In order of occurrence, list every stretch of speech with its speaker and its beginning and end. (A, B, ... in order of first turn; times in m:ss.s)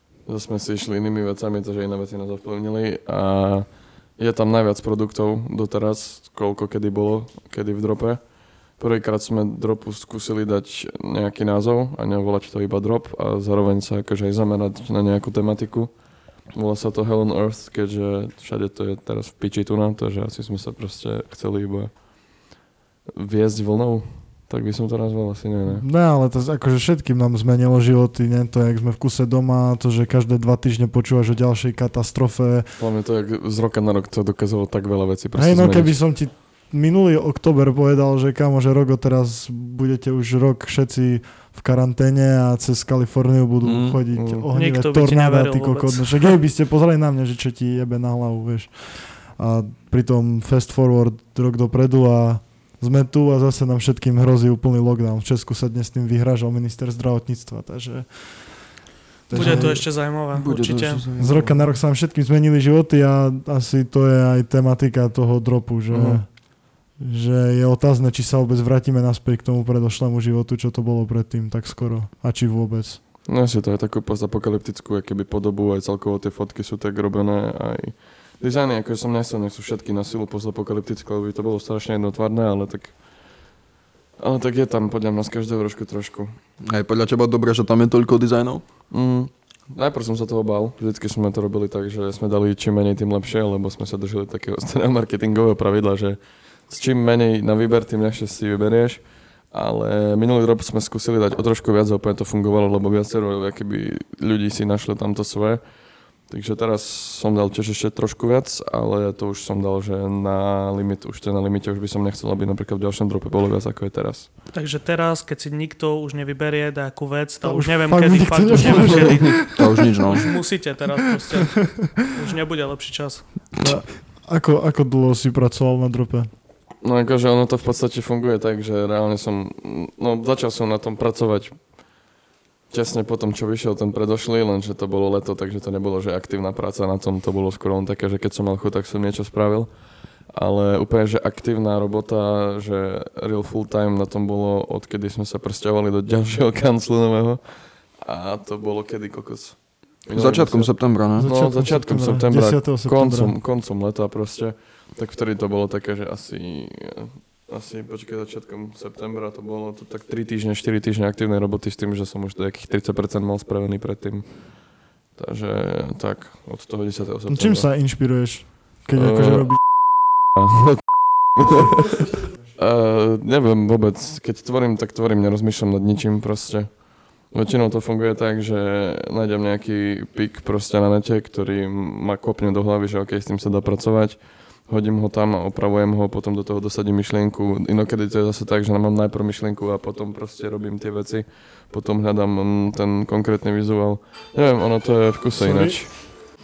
0:00.2-0:15.9 A
0:16.5-0:22.5 A
0:23.2-0:25.8 A
0:25.7-0:32.7 B
0:32.8-0:36.0 A
0:35.3-1:00.0 B
0:43.6-0:44.0 C
0:44.1-0:44.5 A
0:44.5-0:46.3 D
0:59.3-1:01.0 D
0:59.3-1:01.7 C
1:01.2-1:13.0 B
1:05.9-1:06.2 A
1:13.3-1:23.0 A
1:24.2-1:26.3 A
1:26.6-1:28.6 C
1:28.9-1:45.6 A
1:46.3-1:54.3 A
1:54.5-2:03.5 D
1:57.4-1:59.8 B
1:59.5-2:00.3 C
2:03.6-2:06.3 B
2:06.8-2:11.8 A
2:12.7-2:19.7 A
2:20.3-2:27.4 A
2:28.0-2:47.7 A
2:30.1-2:31.3 C
2:31.1-2:33.4 B
2:47.3-2:49.6 B
2:48.9-2:49.6 A
2:50.4-2:50.8 A
2:51.4-2:51.7 A
2:52.5-3:15.9 A
3:15.4-3:15.8 B